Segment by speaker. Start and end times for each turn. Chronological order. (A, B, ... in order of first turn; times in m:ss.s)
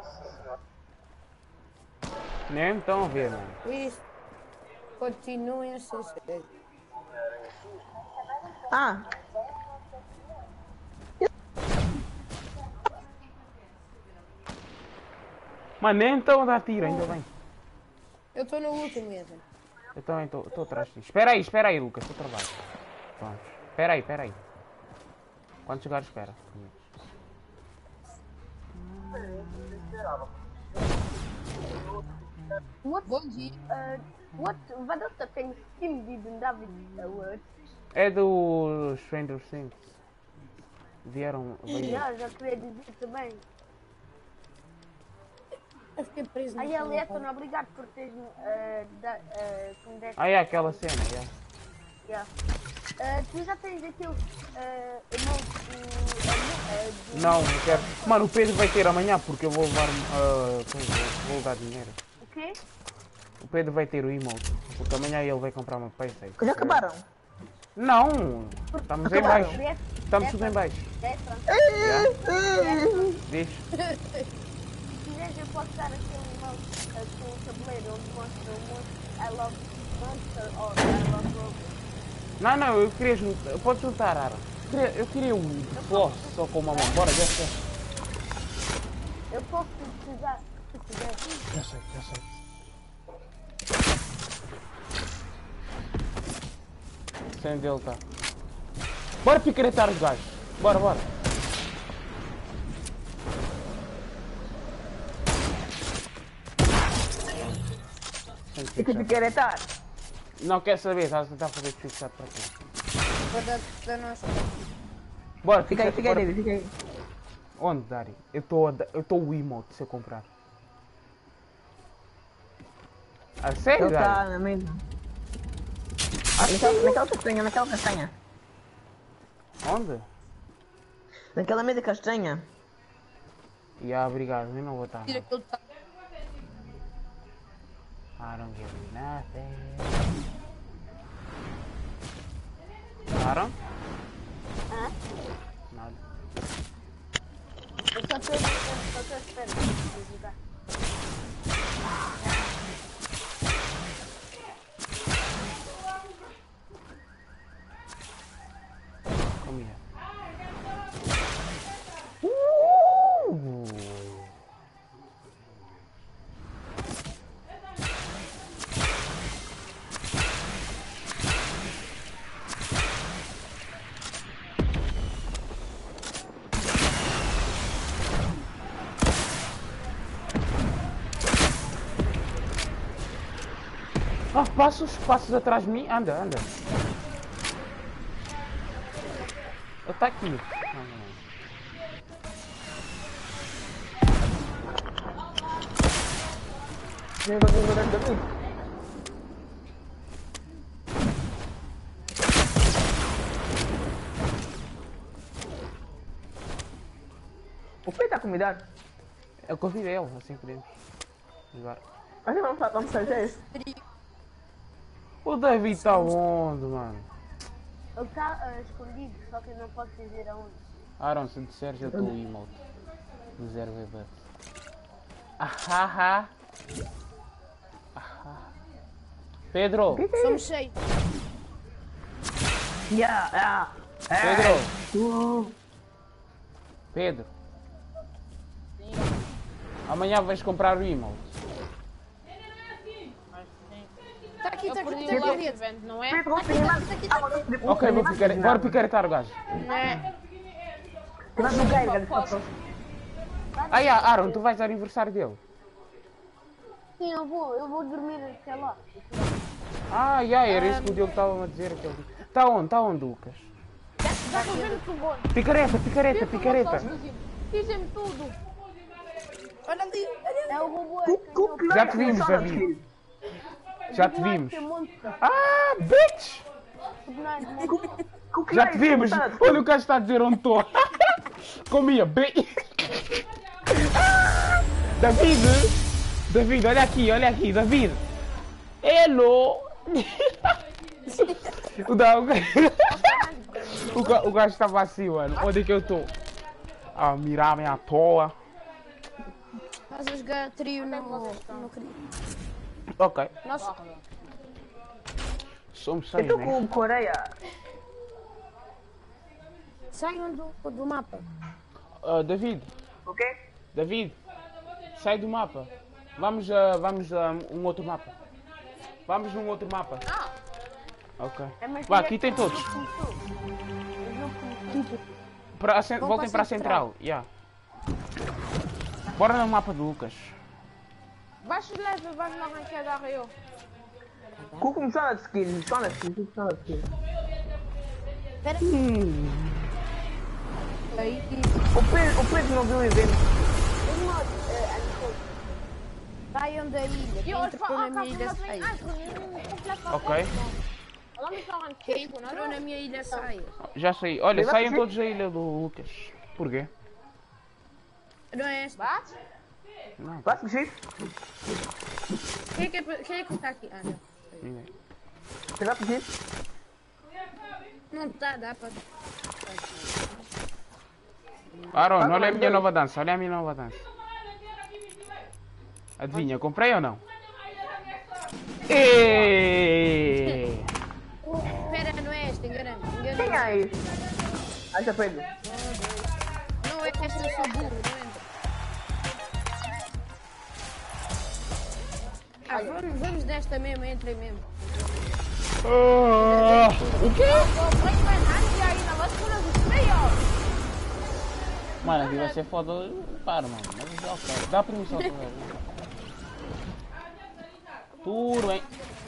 0:02.5-0:03.6 A
0:03.6-0:04.0 B
0:05.0-0:06.5 B
0:08.7-0:09.1 C
0:15.8-0:17.3 A
0:16.8-0:17.1 B
0:18.4-0:19.4 B
0:20.0-0:22.6 A
0:23.2-0:24.4 A
0:25.7-0:26.9 A
0:29.1-0:29.4 A
0:32.8-0:33.1 D
0:33.1-0:33.6 B
0:33.7-0:37.4 D
0:37.9-0:39.9 A
0:41.0-0:42.1 A
0:41.7-0:43.4 D
0:46.0-0:47.3 B
0:46.6-0:50.8 D
0:50.2-0:51.3 A
0:53.0-0:58.3 D
0:57.1-1:02.0 A
1:02.2-1:02.6 D
1:03.4-1:06.8 A
1:06.4-1:07.0 C
1:07.8-1:10.8 A
1:09.0-1:09.6 C
1:09.0-1:11.6 D
1:11.5-1:13.2 C
1:11.8-1:12.1 A
1:12.4-1:13.2 D
1:13.2-1:13.7 A
1:13.8-1:14.3 B
1:14.9-1:21.8 D
1:22.4-1:27.6 A
1:25.7-1:27.2 D
1:29.3-1:31.4 D
1:31.5-1:32.3 A
1:37.4-1:38.0 A
1:39.2-1:41.1 A
1:47.4-1:47.7 A
1:48.5-1:49.3 A
1:48.8-1:49.7 C
1:50.4-1:52.5 A
1:53.3-1:54.6 B
1:55.4-1:56.3 A
1:55.7-1:56.7 C
1:57.6-2:00.3 A
2:03.4-2:04.2 A
2:03.8-2:04.8 C
2:06.4-2:08.1 C
2:06.4-2:07.0 B
2:09.6-2:10.1 A
2:11.4-2:12.4 C
2:13.8-2:15.3 A
2:15.1-2:15.6 B
2:18.2-2:20.0 A
2:23.2-2:23.6 A
2:24.7-2:25.0 D
2:25.7-2:26.0 A
2:27.9-2:30.4 D
2:39.4-2:39.8 A
2:42.2-2:44.3 A
3:04.3-3:06.6 A
3:09.8-3:11.2 A
3:17.2-3:18.3 C
3:27.8-3:28.6 C
3:29.5-3:30.7 A
3:31.5-3:31.8 A
3:32.2-3:33.4 C
3:33.2-3:33.8 B
3:35.2-3:37.1 A
3:35.7-3:36.2 B
3:38.0-3:40.6 D
3:41.0-3:42.6 A
3:41.8-3:42.1 C
3:43.4-3:44.1 A
3:45.4-3:46.3 A
3:48.0-3:48.5 A
3:49.5-3:50.0 A
3:49.9-3:50.4 C
3:50.2-3:50.7 B
3:52.9-3:55.6 C
3:54.2-3:54.7 A
3:56.9-3:57.3 A
3:58.8-3:59.3 E
3:59.9-4:01.3 A
4:03.3-4:03.9 E
4:04.4-4:05.6 B
4:04.6-4:06.3 E
4:05.1-4:05.4 C
4:06.1-4:08.8 C
4:06.3-4:07.8 D
4:07.6-4:10.0 A
4:09.6-4:10.0 B
4:09.6-4:10.0 E
4:11.4-4:12.5 C
4:11.4-4:12.6 E
4:13.5-4:14.4 D
4:13.7-4:15.4 A
4:17.0-4:19.4 D
4:19.9-4:23.5 A
4:20.5-4:21.1 E
4:24.0-4:25.3 E
4:24.3-4:24.8 B
4:25.3-4:26.9 A
4:26.1-4:28.4 E
4:29.6-4:30.7 B
4:30.5-4:32.6 D
4:31.0-4:32.8 C
4:31.7-4:32.7 A
4:33.9-4:35.2 D
4:33.9-4:34.7 A
4:35.2-4:36.4 A
4:37.0-4:37.9 D
4:38.3-4:39.6 C
4:38.5-4:45.8 A
4:46.3-4:48.0 A
4:48.8-4:50.6 A
4:51.1-4:51.4 B
4:51.1-4:53.2 A
4:52.9-4:54.2 E
4:53.9-4:56.1 A
4:57.0-4:58.4 A
4:59.9-5:02.1 B
5:00.8-5:01.7 E
5:03.0-5:03.4 A
5:03.4-5:03.7 B
5:03.5-5:04.0 E
5:05.7-5:06.6 A
5:06.2-5:07.3 C
5:09.9-5:11.3 B
5:12.0-5:12.7 A
5:13.1-5:13.4 C
5:13.7-5:14.2 A
5:14.9-5:18.1 A
5:19.1-5:20.0 A
5:20.0-5:20.3 E
5:21.2-5:22.7 A
5:21.6-5:23.2 D
5:24.0-5:25.0 D
5:25.6-5:27.3 A
5:26.0-5:26.8 B
5:29.2-5:30.4 A
5:31.4-5:33.4 E
5:34.6-5:36.9 C
5:38.4-5:38.7 B
5:38.6-5:39.7 A
5:40.9-5:41.5 B
5:41.0-5:41.2 E
5:41.7-5:43.3 C
5:43.8-5:45.5 D
5:46.3-5:48.7 B
5:47.2-5:49.0 E
5:48.8-5:50.6 D
5:49.9-5:50.3 A
5:51.2-5:52.6 E
5:51.8-5:53.6 B
5:53.6-5:56.7 A
5:54.3-5:54.9 C
5:58.3-5:58.9 B
5:58.8-5:59.2 E
6:00.0-6:00.4 A
6:00.2-6:00.8 C
6:02.5-6:04.5 B
6:04.4-6:04.7 A
6:05.6-6:06.1 C
6:07.9-6:08.8 B
6:09.5-6:09.8 B
6:11.7-6:12.0 B
6:11.7-6:13.8 A
6:12.0-6:12.7 C
6:16.0-6:17.0 A
6:18.7-6:20.7 A
6:21.4-6:23.7 B
6:23.2-6:23.8 C
6:24.7-6:25.3 C
6:25.4-6:26.1 B
6:26.6-6:28.2 B
6:26.9-6:27.7 D
6:32.5-6:35.0 B
6:35.6-6:37.5 A
6:36.2-6:37.0 B
6:37.0-6:40.2 E
6:41.8-6:42.4 E
6:41.8-6:45.6 A
6:48.0-6:48.7 A